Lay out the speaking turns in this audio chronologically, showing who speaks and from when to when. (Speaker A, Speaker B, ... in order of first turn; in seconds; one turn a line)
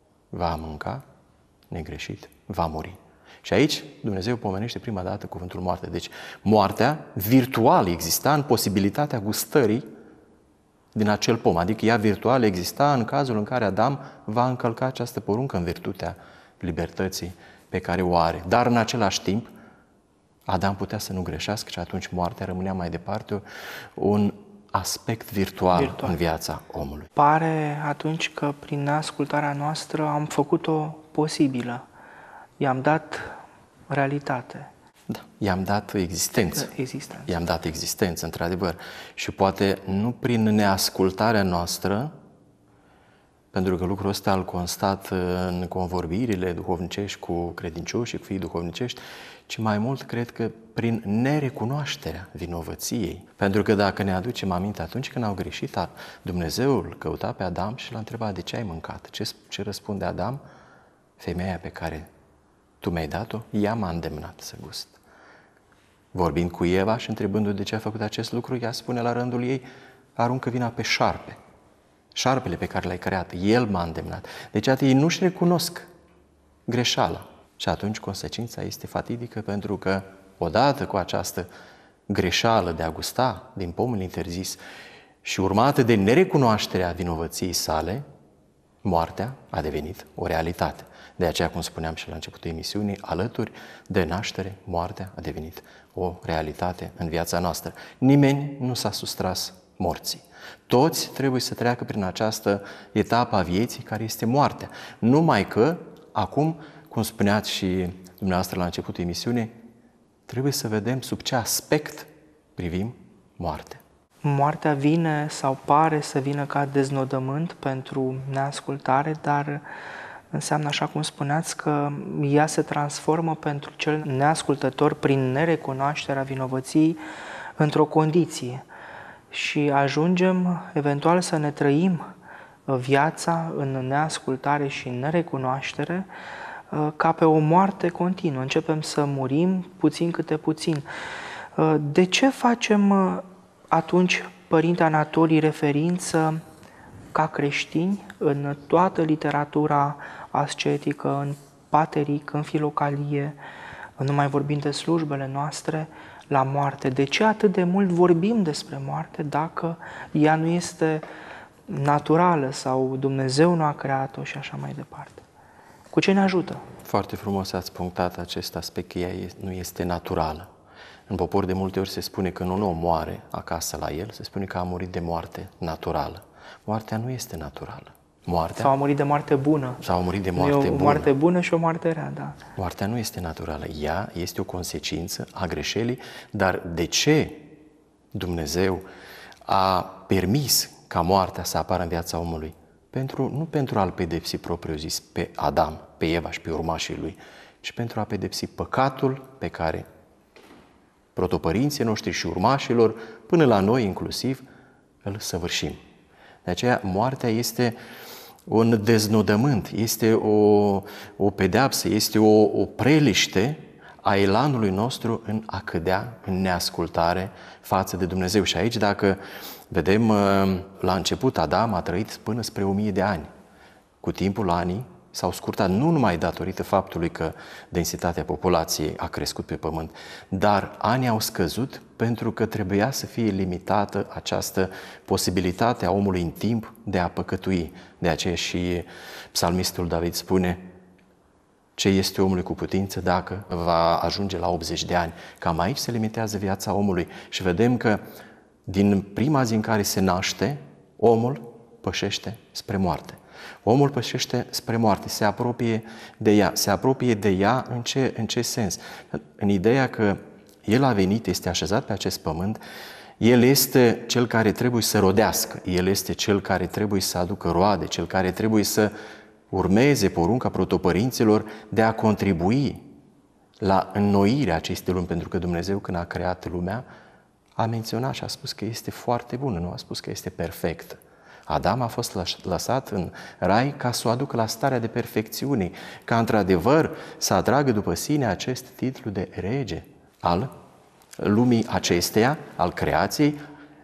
Speaker A: 0.3-1.0
Speaker A: 1.7-9.9
Speaker A: 10.9-19.5
Speaker A: 20.5-23.4
Speaker A: 24.0-27.1
Speaker B: 25.8-26.1
Speaker B: 27.2-31.8
Speaker B: 32.6-33.4
Speaker B: 33.9-34.7
Speaker A: 35.1-36.7
Speaker B: 36.6-37.3
Speaker A: 37.3-42.1
Speaker A: 43.5-60.4
Speaker A: 61.2-62.1
Speaker A: 62.8-65.0
Speaker A: 66.1-71.4
Speaker A: 72.2-75.9
Speaker A: 76.7-81.5
Speaker A: 82.1-84.6
Speaker A: 85.2-88.0
Speaker A: 88.8-109.5
Speaker A: 110.3-113.8
Speaker B: 114.2-119.6
Speaker B: 120.3-127.0
Speaker B: 127.6-128.6
Speaker B: 129.3-132.1
Speaker B: 132.7-136.1
Speaker B: 136.7-140.9
Speaker B: 141.6-146.4
Speaker B: 147.1-153.4
Speaker B: 154.0-161.1
Speaker B: 161.7-165.2
Speaker B: 165.9-166.7
Speaker A: 166.8-170.5
Speaker A: 171.1-178.7
Speaker B: 178.6-179.8
Speaker A: 179.8-181.1
Speaker B: 180.4-182.4
Speaker A: 182.6-187.5
Speaker A: 188.1-188.8
Speaker A: 189.5-199.9
Speaker A: 201.2-204.4
Speaker A: 205.0-205.8
Speaker A: 206.4-207.8
Speaker A: 208.5-219.2
Speaker A: 219.7-223.3
Speaker A: 224.0-240.6
Speaker A: 241.8-248.0
Speaker A: 248.7-262.6
Speaker A: 263.2-268.9
Speaker A: 269.5-272.8
Speaker A: 273.6-276.8
Speaker A: 277.6-290.5
Speaker A: 291.2-293.4